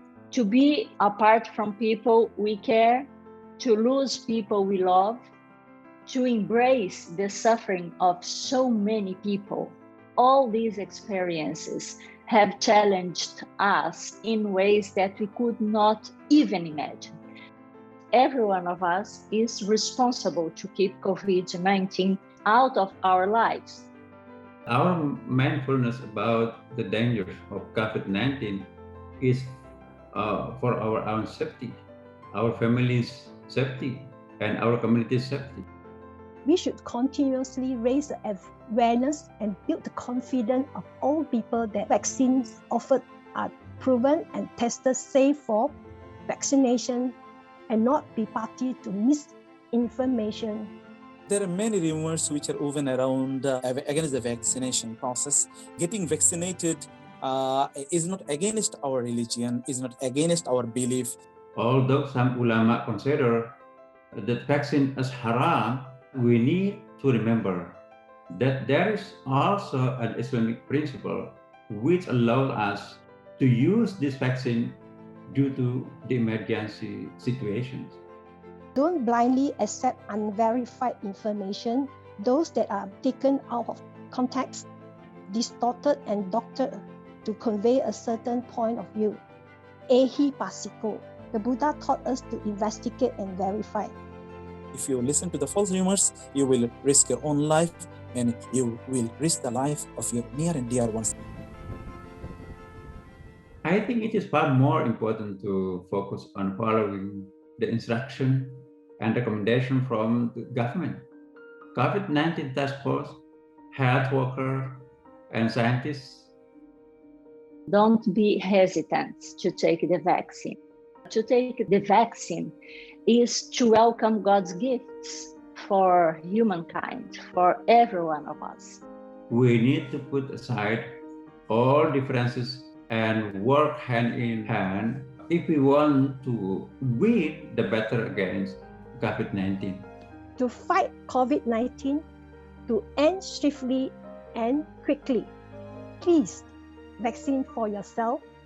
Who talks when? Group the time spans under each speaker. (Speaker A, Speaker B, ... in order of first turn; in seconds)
Speaker A: 0.3-5.2, 6.0-17.1, 18.1-23.9, 117.7-128.8
Speaker B: 24.6-29.6, 30.1-35.6, 61.5-63.6, 64.1-67.8, 68.3-78.0, 103.6-111.0, 111.7-116.3, 129.3-130.9, 131.5-139.9
Speaker C: 36.4-45.7, 46.3-47.1, 47.7-50.7, 78.7-84.7, 85.3-89.2, 89.9-93.9, 140.4-142.0, 142.7-145.3, 146.0-148.2
Speaker D: 51.3-61.1, 94.7-101.1